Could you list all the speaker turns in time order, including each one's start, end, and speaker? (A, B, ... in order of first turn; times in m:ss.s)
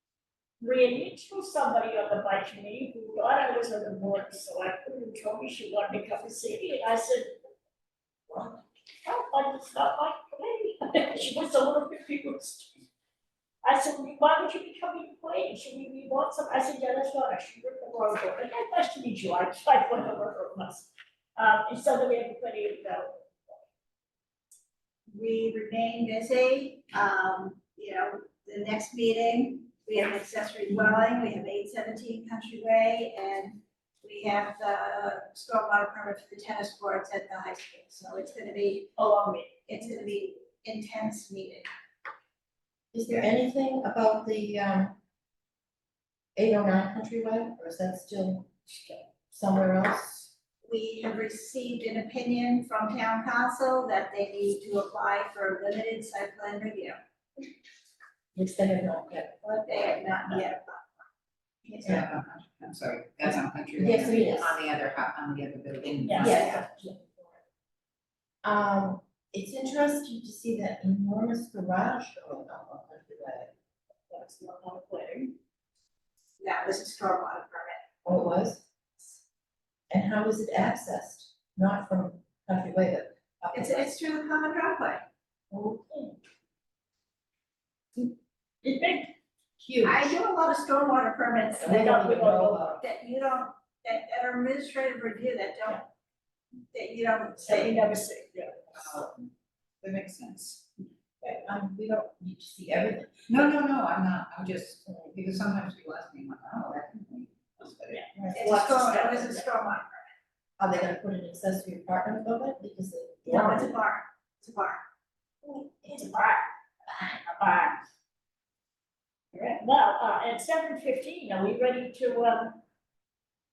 0:00.6-0:07.3 A
0:08.3-0:12.7 A
0:13.6-0:23.3 A
0:25.1-0:38.9 B
0:39.0-0:39.5 A
0:39.7-0:41.7 B
0:42.9-0:45.0 C
0:46.4-0:50.3 C
0:50.6-0:57.0 B
0:58.4-1:00.1 C
0:59.7-1:00.9 B
1:01.8-1:06.5 D
1:03.8-1:04.6 C
1:06.0-1:06.4 A
1:06.2-1:07.4 C
1:06.2-1:06.6 B
1:08.4-1:13.5 C
1:14.1-1:15.3 A
1:16.4-1:17.8 B
1:18.0-1:19.2 C
1:19.9-1:23.9 C
1:23.5-1:25.0 B
1:25.5-1:25.8 C
1:28.6-1:29.1 A
1:29.6-1:30.2 C
1:29.8-1:31.8 B
1:31.6-1:32.8 C
1:31.6-1:32.8 A
1:32.8-1:35.8 B
1:36.7-1:37.8 B
1:37.4-1:38.8 A
1:38.7-1:39.3 D
1:39.8-1:40.6 D
1:41.2-1:43.4 C
1:43.3-1:48.0 D
1:47.9-1:49.5 A
1:48.2-1:48.6 C
1:48.3-1:50.1 B
1:50.6-1:53.7 C
1:53.3-1:54.8 B
1:55.5-1:56.5 A
1:57.2-1:57.8 A
1:59.3-2:02.6 A